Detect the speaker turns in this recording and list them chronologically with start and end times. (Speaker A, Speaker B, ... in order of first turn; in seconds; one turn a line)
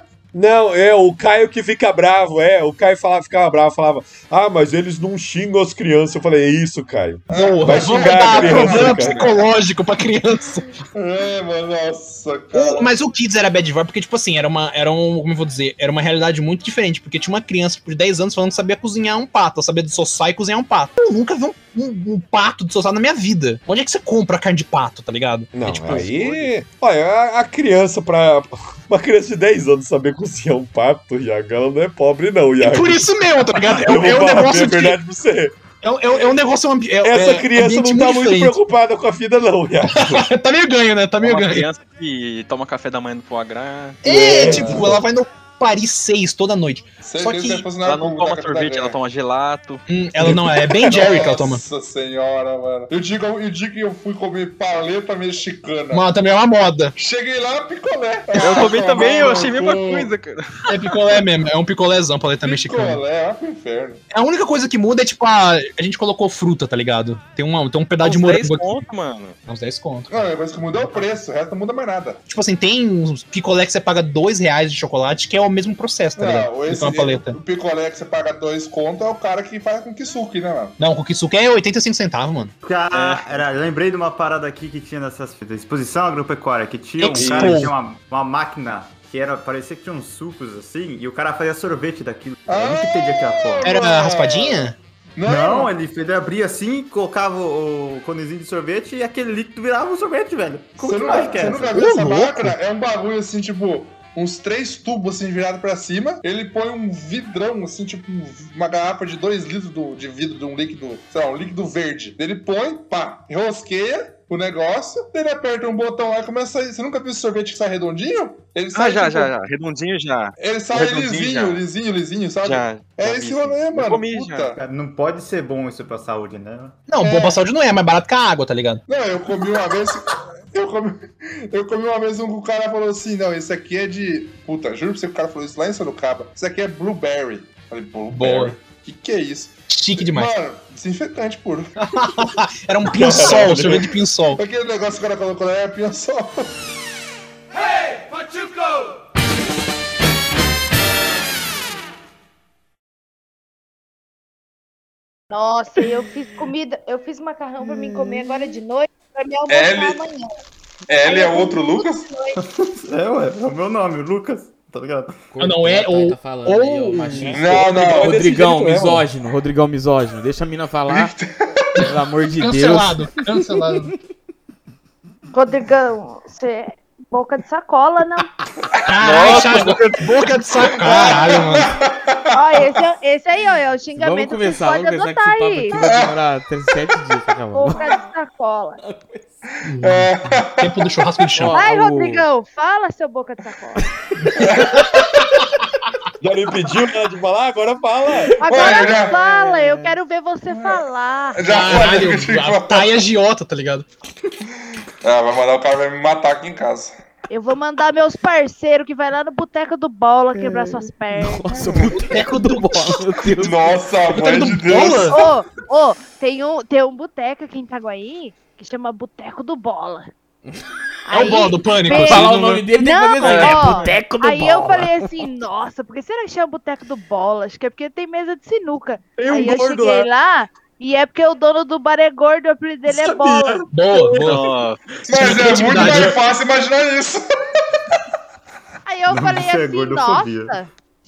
Speaker A: 0.3-9.4
Speaker B: 7.3-9.5
Speaker C: 7.3-10.7
Speaker B: 10.9-12.9
Speaker C: 12.5-26.5
Speaker A: 25.5-33.1
Speaker C: 32.6-35.0
Speaker A: 33.7-35.5
Speaker C: 35.8-38.6
Speaker A: 37.0-40.2
Speaker C: 39.9-41.7
Speaker D: 41.2-44.0
Speaker C: 44.0-47.7
Speaker A: 44.0-45.0
Speaker B: 44.4-44.9
Speaker B: 47.0-49.0
Speaker D: 47.8-49.8
Speaker C: 49.9-51.6
Speaker A: 50.2-51.0
Speaker B: 50.8-56.1
Speaker C: 55.9-57.0
Speaker B: 57.0-60.1
Speaker D: 58.4-60.9
Speaker C: 60.7-63.0
Speaker B: 62.4-64.0
Speaker C: 64.1-68.8
Speaker D: 68.0-69.4
Speaker C: 69.5-71.0
Speaker B: 70.1-72.2
Speaker C: 72.3-77.4
Speaker B: 76.2-80.8
Speaker C: 80.8-82.5
Speaker E: 82.6-93.8
Speaker D: 82.9-83.2
Speaker C: 87.0-87.7
Speaker A: 87.1-87.7
Speaker B: 92.5-95.7
Speaker C: 93.6-94.8
Speaker E: 95.2-101.9
Speaker B: 100.8-119.3
Speaker C: 101.7-102.6
Speaker D: 118.7-121.7
Speaker B: 120.4-124.6
Speaker D: 122.4-124.6
Speaker E: 124.6-126.8
Speaker C: 126.9-128.8
Speaker B: 127.0-127.4
Speaker B: 128.9-142.2
Speaker C: 138.1-138.6
Speaker C: 139.7-140.3
Speaker C: 141.8-144.4
Speaker A: 142.8-143.9
Speaker B: 143.1-143.8
Speaker B: 144.4-146.6
Speaker F: 155.3-160.3
Speaker B: 159.5-160.0
Speaker B: 160.9-162.1
Speaker F: 161.0-162.4
Speaker E: 162.4-165.2
Speaker G: 165.3-171.2
Speaker C: 165.4-167.7
Speaker B: 167.3-168.2
Speaker A: 167.5-169.1
Speaker B: 170.9-171.7
Speaker G: 171.8-173.0
Speaker C: 172.4-173.9
Speaker F: 175.3-178.3
Speaker C: 178.9-181.7
Speaker D: 179.0-179.8
Speaker B: 179.1-179.7
Speaker B: 180.6-182.7
Speaker F: 182.3-185.8
Speaker G: 184.0-188.0
Speaker B: 185.8-186.1
Speaker F: 187.5-188.8
Speaker G: 188.8-189.3
Speaker C: 189.7-191.6
Speaker B: 189.8-190.8
Speaker G: 191.3-192.2
Speaker F: 191.5-193.9
Speaker C: 194.2-195.2
Speaker B: 194.4-195.2
Speaker A: 196.2-198.3
Speaker G: 198.2-200.0
Speaker F: 198.4-201.9
Speaker B: 198.4-199.2
Speaker B: 200.5-200.8
Speaker B: 201.3-202.9
Speaker C: 201.4-203.9
Speaker B: 205.0-206.9
Speaker F: 207.3-211.8
Speaker G: 210.3-213.8
Speaker C: 211.8-213.3
Speaker B: 213.3-215.2
Speaker C: 214.1-215.2
Speaker F: 215.1-220.1
Speaker F: 221.1-233.7
Speaker C: 221.1-222.7
Speaker G: 221.9-225.1
Speaker D: 223.2-223.7
Speaker A: 229.2-230.1
Speaker E: 233.2-233.5
Speaker C: 233.7-234.6
Speaker D: 234.2-234.9
Speaker B: 235.1-237.2
Speaker C: 235.1-236.2
Speaker F: 238.9-240.7
Speaker E: 239.1-240.6